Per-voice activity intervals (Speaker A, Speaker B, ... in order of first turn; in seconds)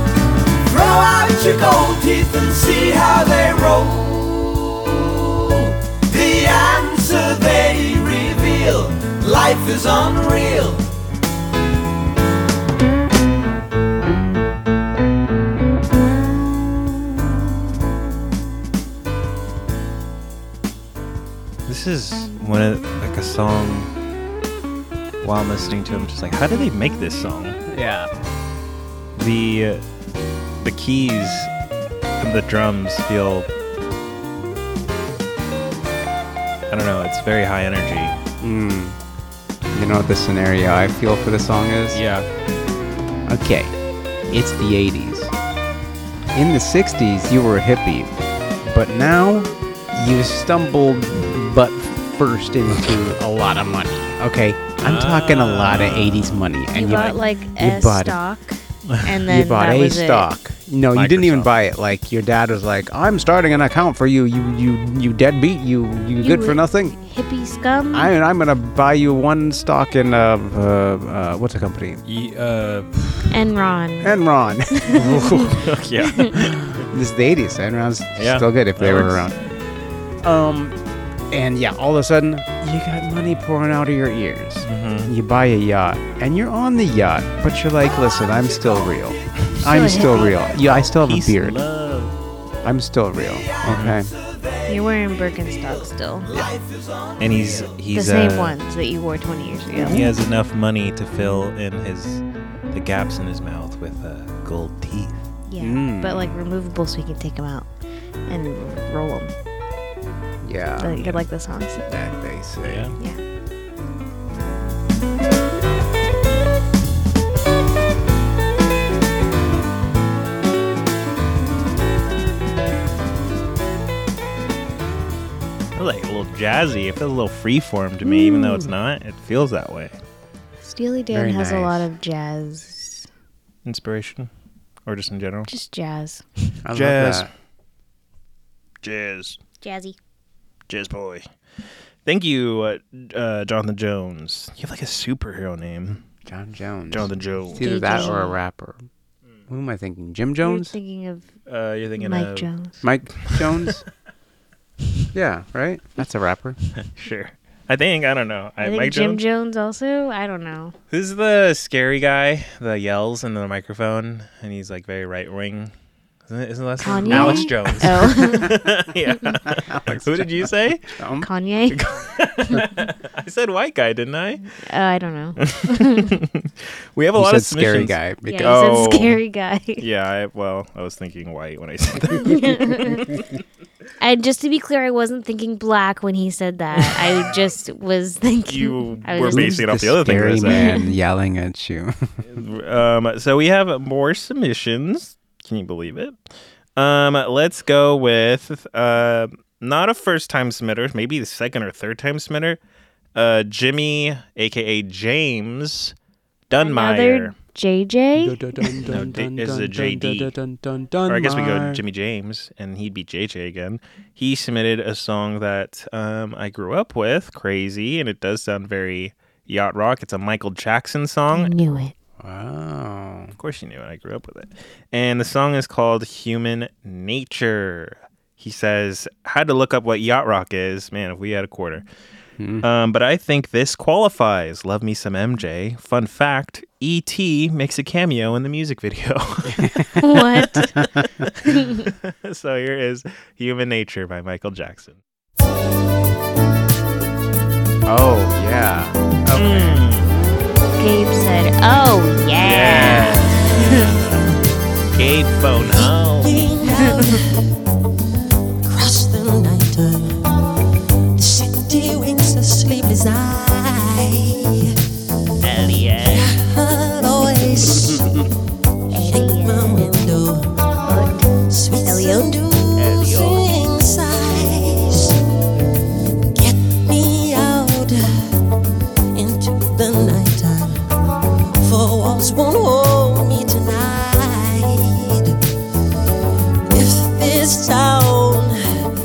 Speaker A: 0.7-10.9, 94.1-94.7, 96.3-97.8
Speaker B: 21.7-23.9, 25.2-27.6, 29.2-29.8, 30.6-31.5, 32.2-33.5, 36.7-38.2, 41.9-42.3, 54.8-56.5, 60.9-61.5, 72.0-73.3, 75.6-76.6, 78.2-79.3, 84.7-85.1, 90.4-92.2, 93.7-94.0, 97.2-98.6, 99.9-105.3, 112.6-112.9, 125.8-130.0, 133.7-134.3, 134.9-135.5, 136.7-137.3, 138.8-139.4, 140.7-141.3, 142.1-146.1, 146.9-148.1, 151.5-152.5, 153.3-153.7, 156.8-159.2, 160.9-165.7, 166.3-170.9, 171.7-174.5, 175.4-179.2, 179.8-182.9, 188.5-190.7, 192.3-196.2, 196.8-202.6, 203.2-205.9, 206.5-207.3, 208.9-210.3, 211.1-221.5, 223.4-231.8, 232.6-239.7, 241.5-245.0, 249.3-250.1, 252.4-254.2, 255.0-256.5, 265.4-266.3, 272.8-273.4
Speaker C: 27.7-28.1, 38.4-39.0, 39.7-42.0, 43.3-43.7, 44.3-45.3, 46.3-48.1, 48.6-58.2, 59.3-67.0, 67.9-72.0, 74.0-75.7, 76.3-79.3, 80.2-80.8, 81.3-91.6, 92.6-94.1, 99.7-100.1, 105.6-106.3, 110.4-111.2, 111.9-112.9, 131.1-131.9, 136.6-137.3, 146.2-148.8, 149.5-150.8, 152.8-153.8, 155.1-156.6, 167.1-168.7, 169.4-171.3, 177.2-178.6, 189.2-192.1, 208.2-211.8, 222.2-223.3, 232.4-232.7, 239.5-241.0, 247.9-249.8
Speaker D: 56.7-60.3, 66.2-68.1, 73.3-74.2, 74.7-76.3, 89.6-90.4, 94.7-96.3, 97.9-100.0, 105.5-107.7, 108.3-109.3, 110.8-111.9, 130.6-133.1, 135.5-136.5, 139.6-140.0, 147.6-148.4, 150.4-151.3, 152.0-152.8, 158.6-160.8, 166.8-168.6, 171.2-171.9, 174.5-176.2, 178.3-179.8, 182.2-183.1, 184.0-189.6, 190.4-190.9, 206.6-208.4, 221.3-221.9, 240.0-240.8, 241.5-241.9, 250.8-253.2, 268.9-270.0, 270.9-271.2, 271.9-272.4
Speaker E: 252.9-253.9, 255.7-257.4, 258.6-260.2, 261.2-264.7, 265.9-268.1, 268.9-275.1, 276.3-278.3, 279.1-280.8, 281.6-285.4, 286.7-288.6